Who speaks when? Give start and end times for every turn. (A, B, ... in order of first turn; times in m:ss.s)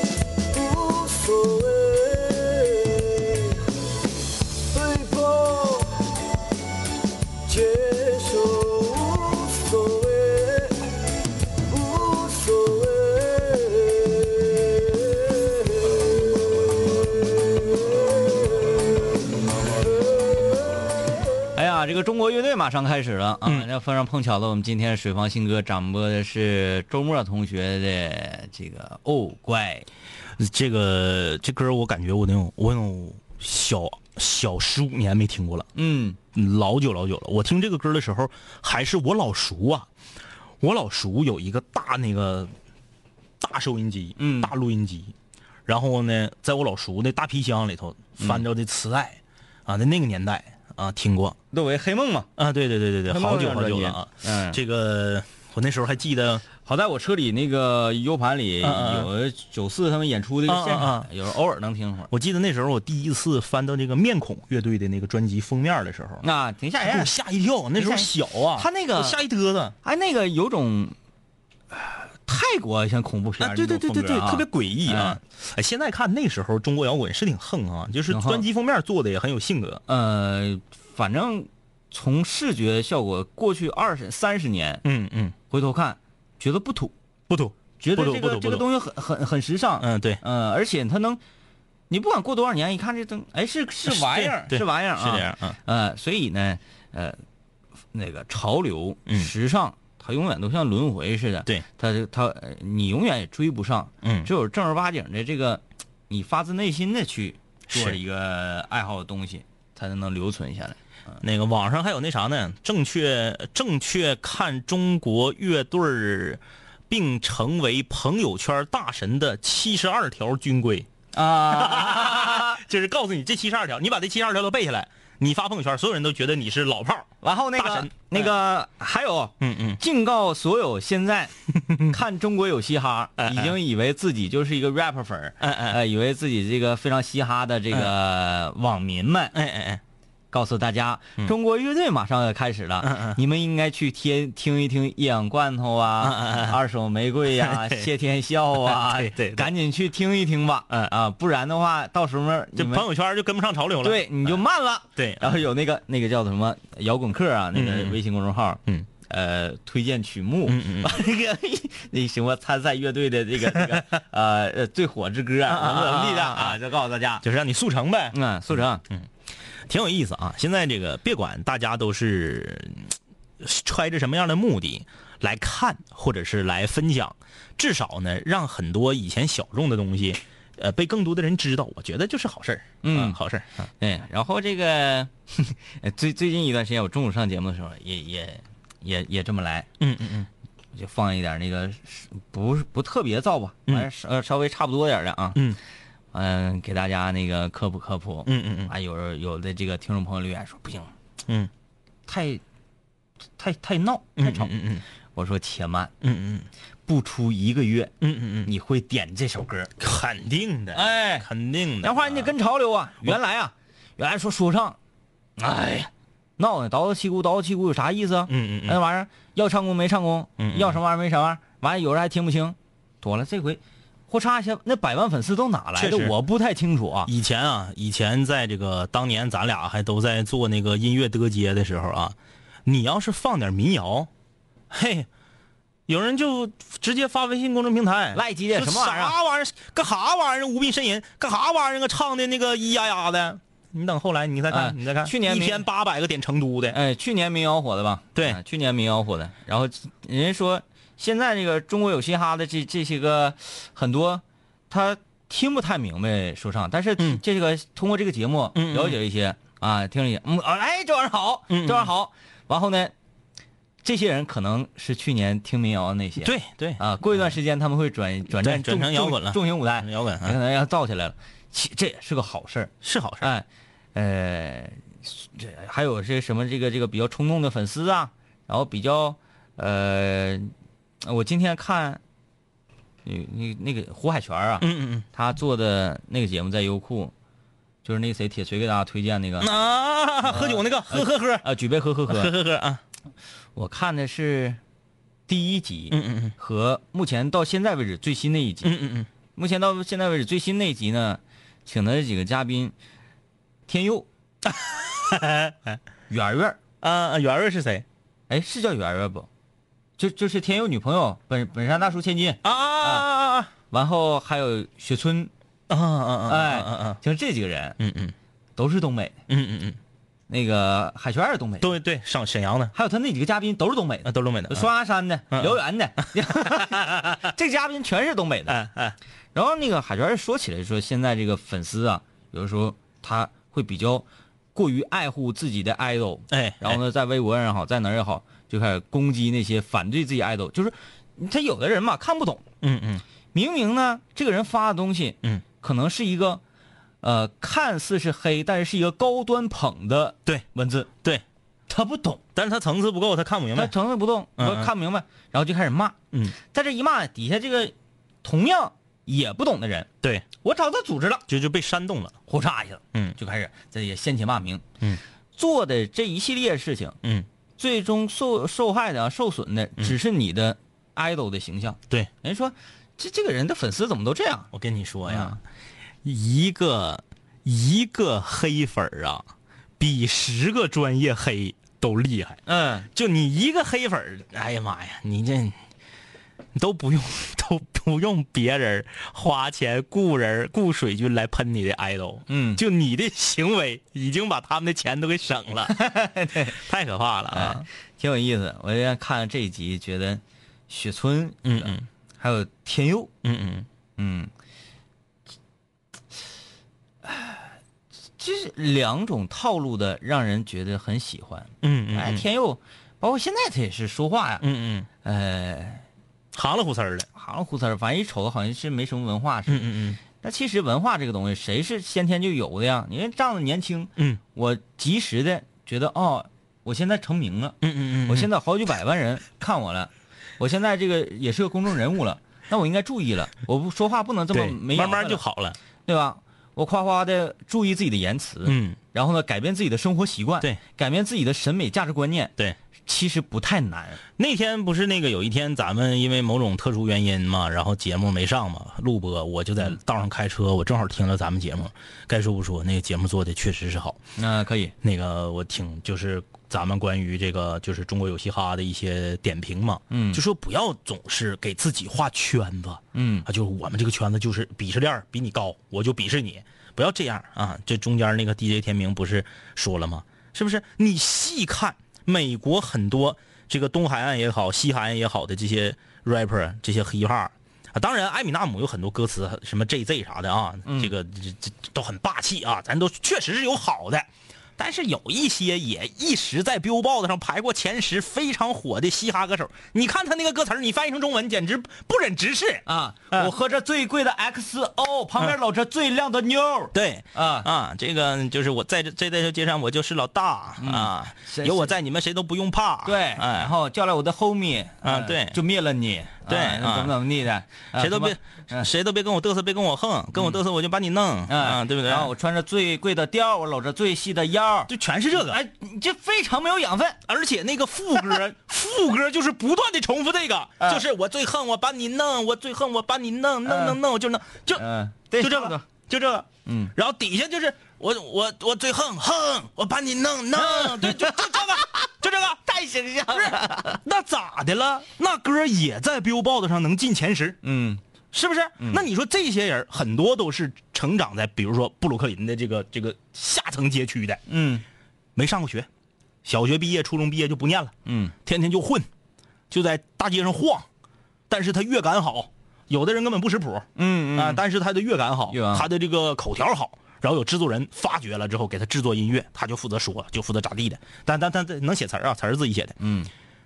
0:00.5-0:03.6 A
0:04.7-0:06.0 A
0:07.4-0:10.8 A
0:11.7-0:16.3 A
0:21.6-0:29.9 B
0:30.4-0:35.7 C
0:35.7-0:36.2 B
0:36.3-0:39.9 C
0:40.6-0:42.5 C
0:43.4-0:45.1 C
0:44.2-0:44.5 B
0:45.7-0:51.4 C
0:51.5-0:52.3 B
0:52.4-0:56.4 C
0:53.1-0:54.6 B
0:56.6-1:02.1 B
0:58.6-0:59.1 C
1:00.5-1:01.1 C
1:02.1-1:06.2 C
1:06.2-1:07.1 B
1:06.8-1:09.7 C
1:07.8-1:09.2 B
1:09.8-1:10.9 B
1:11.7-1:15.2 B
1:13.4-1:19.8 C
1:18.1-1:18.4 B
1:19.9-1:24.8 B
1:24.8-1:25.4 C
1:25.5-1:26.9 B
1:27.3-1:28.7 C
1:27.8-1:31.2 B
1:29.8-1:30.2 C
1:31.9-1:37.2 B
1:33.9-1:35.6 C
1:37.9-1:50.8 B
1:44.0-1:44.3 C
1:47.7-1:48.0 C
1:51.2-2:00.9 C
2:01.1-2:02.6 B
2:01.5-2:08.3 C
2:07.2-2:11.3 B
2:09.4-2:09.8 C
2:11.5-2:12.0 C
2:11.9-2:19.3 B
2:13.2-2:13.6 C
2:15.4-2:15.8 C
2:19.3-2:19.8 C
2:20.3-2:32.9 B
2:22.8-2:23.2 C
2:26.0-2:26.6 C
2:27.4-2:27.9 C
2:28.6-2:29.5 C
2:32.6-2:34.4 C
2:33.8-2:47.2 B
2:35.0-2:35.4 C
2:37.5-2:38.0 C
2:40.5-2:41.0 C
2:45.4-2:46.6 C
2:47.2-2:48.2 C
2:48.1-2:48.8 B
2:49.7-3:03.7 C
3:02.8-3:03.2 B
3:03.8-3:09.7 B
3:09.8-3:10.3 C
3:10.8-3:15.4 B
3:16.1-3:20.9 B
3:18.3-3:18.7 C
3:22.1-3:22.4 B
3:23.4-3:24.5 B
3:24.2-3:24.8 C
3:25.1-3:25.9 B
3:26.0-3:26.5 C
3:26.9-3:27.9 B
3:28.0-3:28.5 C
3:28.4-3:29.7 B
3:29.8-3:32.3 C
3:30.7-3:31.3 B
3:31.8-3:34.8 B
3:35.4-3:47.1 B
3:38.3-3:38.8 C
3:40.4-3:40.8 C
3:45.8-3:46.2 C
3:47.0-3:54.1 C
3:54.7-3:55.1 C
3:55.9-4:06.8 C
3:58.1-3:59.2 B
4:04.5-4:05.6 B
4:06.7-4:22.9 B
4:18.6-4:19.0 C
4:21.5-4:21.9 C
4:23.8-4:40.5 B
4:26.2-4:26.8 C
4:28.4-4:30.4 C
4:32.8-4:33.3 C
4:41.0-4:42.0 B
4:43.0-4:47.1 B
4:44.6-4:45.0 C
4:47.8-4:49.5 B
4:49.4-4:51.4 C
4:50.2-4:52.3 B
4:52.1-4:52.8 C
4:53.6-4:54.6 B
4:55.3-4:58.7 B
4:55.9-4:56.3 C
4:58.6-4:59.1 C
4:59.3-5:02.7 B
5:03.7-5:04.0 B
5:04.4-5:05.8 C
5:06.1-5:06.6 B
5:06.8-5:07.8 C
5:08.3-5:09.3 B
5:10.0-5:13.1 B
5:12.4-5:13.5 C
5:13.7-5:15.3 B
5:15.7-5:17.0 C
5:16.3-5:17.8 B
5:17.8-5:18.1 C
5:18.6-5:19.1 B
5:19.3-5:19.8 C
5:20.3-5:21.8 B
5:21.6-5:22.7 C
5:22.7-5:28.6 B
5:24.0-5:24.7 C
5:25.3-5:26.8 C
5:28.5-5:29.0 C
5:29.3-5:42.4 B
5:36.3-5:36.8 C
5:42.6-5:43.0 C
5:43.3-5:46.4 B
5:47.0-5:50.9 B
5:51.7-5:52.2 B
5:52.4-5:53.7 C
5:53.5-5:56.0 B
5:54.4-5:54.7 C
5:56.5-5:59.9 B
6:00.4-6:01.2 B
6:01.3-6:02.2 C
6:02.3-6:04.6 B
6:05.3-6:07.0 B
6:07.6-6:14.5 B
6:14.5-6:15.4 C
6:15.1-6:15.4 B
6:16.0-6:19.3 C
6:19.8-6:25.6 C
6:22.4-6:22.9 B
6:26.6-6:35.8 C
6:32.3-6:32.6 B
6:35.7-6:36.6 B
6:36.4-6:37.7 C
6:37.3-6:43.1 B
6:41.4-6:41.8 C
6:43.2-6:43.7 C
6:44.0-6:44.3 B
6:47.0-6:47.6 B
6:48.2-6:54.4 B
6:51.6-6:52.2 C
6:54.4-6:54.9 C
6:55.0-6:55.8 B
6:56.3-6:57.1 C
6:57.2-7:15.2 B
6:59.5-7:00.0 C
7:07.6-7:08.3 C
7:14.3-7:15.6 C
7:15.9-7:22.3 B
7:18.4-7:18.8 C
7:22.9-7:24.0 B
7:24.2-7:34.0 C
7:34.2-7:34.7 B
7:34.8-8:13.3 C
7:39.9-7:40.2 B
7:42.9-7:43.3 B
8:00.7-8:00.9 B
8:12.7-8:17.5 B
8:16.7-8:23.5 C
8:20.6-8:21.7 B
8:22.8-8:28.7 B
8:24.8-8:25.4 C
8:26.3-8:27.0 C
8:27.7-8:32.1 C
8:31.3-8:37.0 B
8:34.7-8:35.4 C
8:37.1-8:44.7 C
8:43.4-8:43.8 B
8:44.6-8:45.6 B
8:45.2-8:52.4 C
8:46.4-8:46.7 B
8:50.4-8:51.9 B
8:52.4-8:53.8 B
8:53.1-8:57.4 C
8:57.4-8:57.8 B
8:58.1-9:04.2 C
8:58.6-8:58.8 B
9:04.3-9:04.6 B
9:05.2-9:05.7 C
9:06.2-9:07.7 C
9:07.9-9:08.1 B
9:08.2-9:08.9 C
9:09.5-9:10.7 C
9:11.3-9:22.8 C
9:13.8-9:14.4 B
9:15.3-9:15.7 B
9:22.8-9:23.1 B